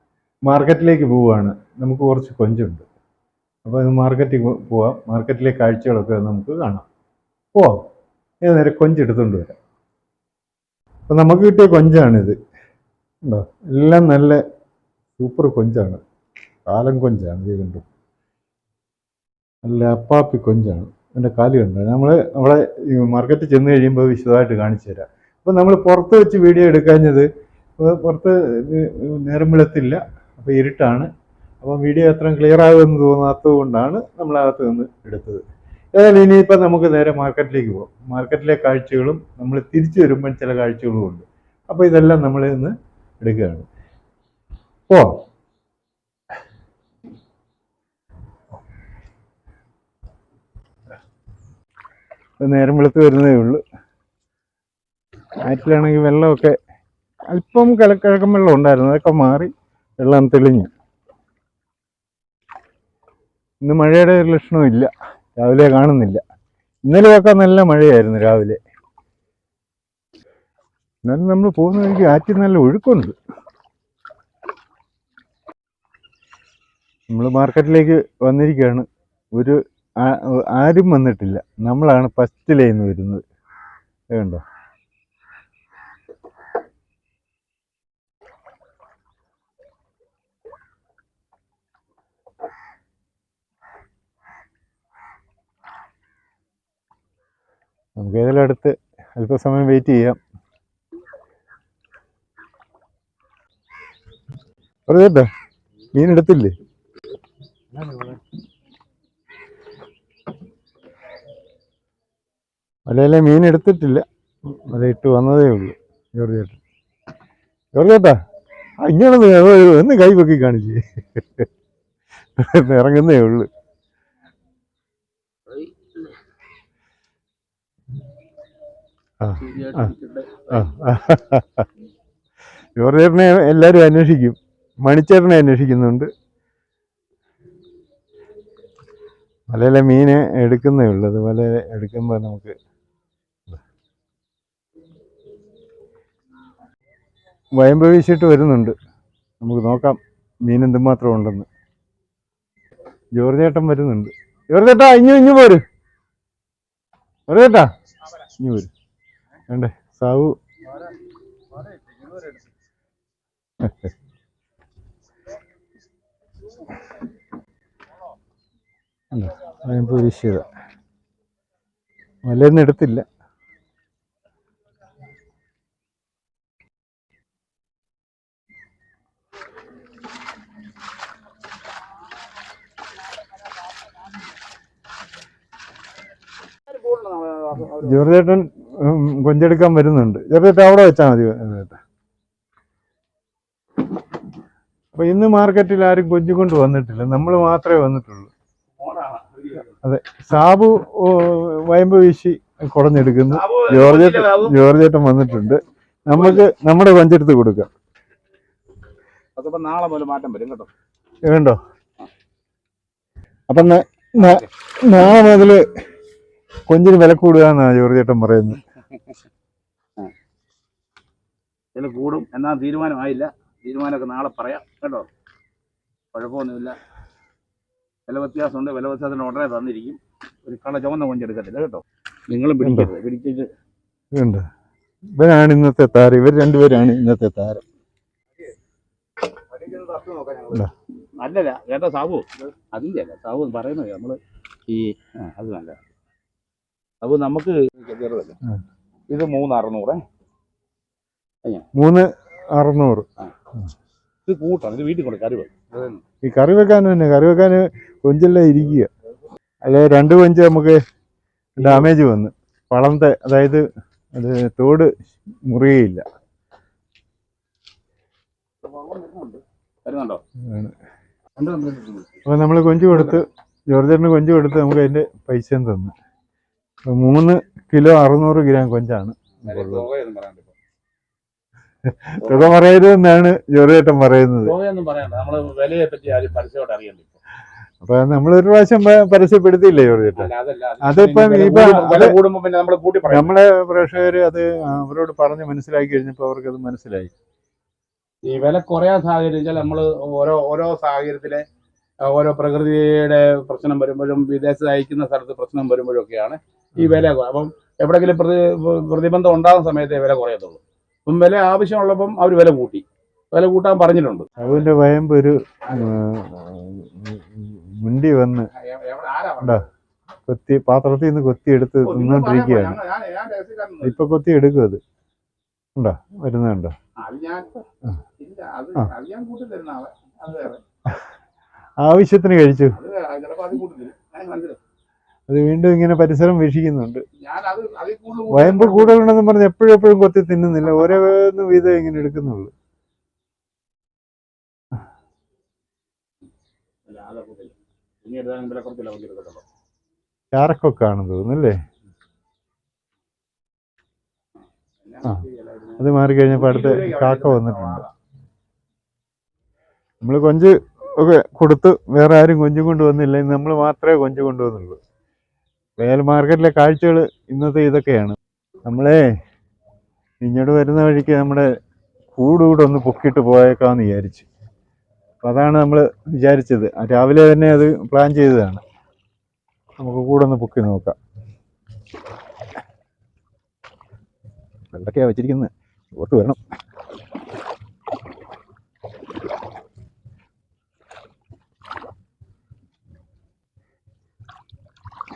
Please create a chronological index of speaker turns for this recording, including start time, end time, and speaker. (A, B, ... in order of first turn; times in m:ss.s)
0:00.5-0:02.8 A
0:03.6-0:06.9 A
0:08.4-0:09.6 A
0:11.1-0:12.4 A
0:13.2-0:14.4 A
0:15.2-0:16.0 A
0:16.7-0:17.8 A
0:19.6-0:31.1 A
0:31.6-0:35.4 A
0:36.0-0:43.7 A
0:44.9-0:45.2 A
0:52.4-0:53.6 A
0:55.4-0:56.6 A
0:57.3-1:00.7 A
1:03.6-1:06.2 A
1:06.8-1:08.6 A
1:11.0-1:13.2 A
1:17.1-1:23.2 A
1:24.1-1:24.4 A
1:38.0-1:40.2 A
1:44.9-1:45.3 A
1:45.9-1:46.5 A
1:52.9-1:56.6 A
1:57.8-1:58.2 A
1:58.8-2:01.5 A
2:02.4-2:03.5 A
2:05.5-2:06.1 B
2:09.2-2:09.9 A
2:09.4-2:10.7 B
2:10.5-2:11.7 A
2:12.8-2:16.1 A
2:19.5-2:22.6 A
2:27.6-2:28.8 A
2:29.4-2:31.5 A
2:33.1-2:35.6 A
2:37.3-2:38.7 A
2:39.5-2:40.4 A
2:43.6-2:43.9 A
2:49.1-2:50.5 A
2:52.3-2:53.1 A
3:06.7-3:08.0 B
3:07.6-3:11.8 A
3:14.9-3:18.3 A
3:18.8-3:19.7 B
3:19.8-3:27.7 A
3:23.3-3:24.6 B
3:26.1-3:26.4 B
3:29.4-3:30.7 B
3:31.2-3:31.6 A
3:33.5-3:35.7 A
3:34.2-3:34.5 B
3:36.7-3:38.6 A
3:41.7-3:45.1 B
3:46.1-3:46.8 B
3:48.1-3:53.5 B
3:52.6-3:52.9 A
3:54.1-3:54.5 A
3:55.2-3:57.6 A
3:59.5-4:00.6 B
4:01.2-4:05.8 B
4:07.0-4:08.4 B
4:09.1-4:10.0 B
4:11.8-4:13.1 A
4:14.3-4:16.0 B
4:16.2-4:18.9 A
4:19.6-4:20.8 A
4:21.6-4:24.9 A
4:21.6-4:21.9 B
4:25.4-4:26.0 A
4:28.6-4:30.2 B
4:30.4-4:30.8 A
4:31.4-4:32.1 B
4:32.2-4:36.0 A
4:32.9-4:33.2 B
4:36.9-4:39.9 A
4:39.4-4:40.5 B
4:41.9-4:44.6 A
4:42.2-4:42.5 B
4:44.4-4:47.2 B
4:47.8-4:50.3 A
4:50.2-4:53.3 B
4:50.8-4:52.2 A
4:53.1-4:57.1 A
4:58.2-5:01.4 B
5:02.0-5:14.4 B
5:14.4-5:18.5 A
5:18.5-5:19.6 B
5:20.3-5:22.8 A
5:21.8-5:24.0 B
5:23.8-5:24.8 A
5:25.8-5:26.8 A
5:27.0-5:27.6 B
5:28.2-5:30.6 B
5:31.8-5:32.8 A
5:32.7-5:34.6 B
5:35.3-5:37.0 A
5:37.2-5:39.0 B
5:38.3-5:42.5 A
5:46.9-5:49.4 B
5:50.3-5:51.6 A
5:54.8-5:57.9 B
5:55.8-5:57.8 A
6:00.0-6:04.8 A
6:05.8-6:09.1 A
6:10.2-6:11.5 A
6:12.2-6:14.3 A
6:15.2-6:18.6 A
6:19.8-6:21.0 A
6:24.7-6:26.4 A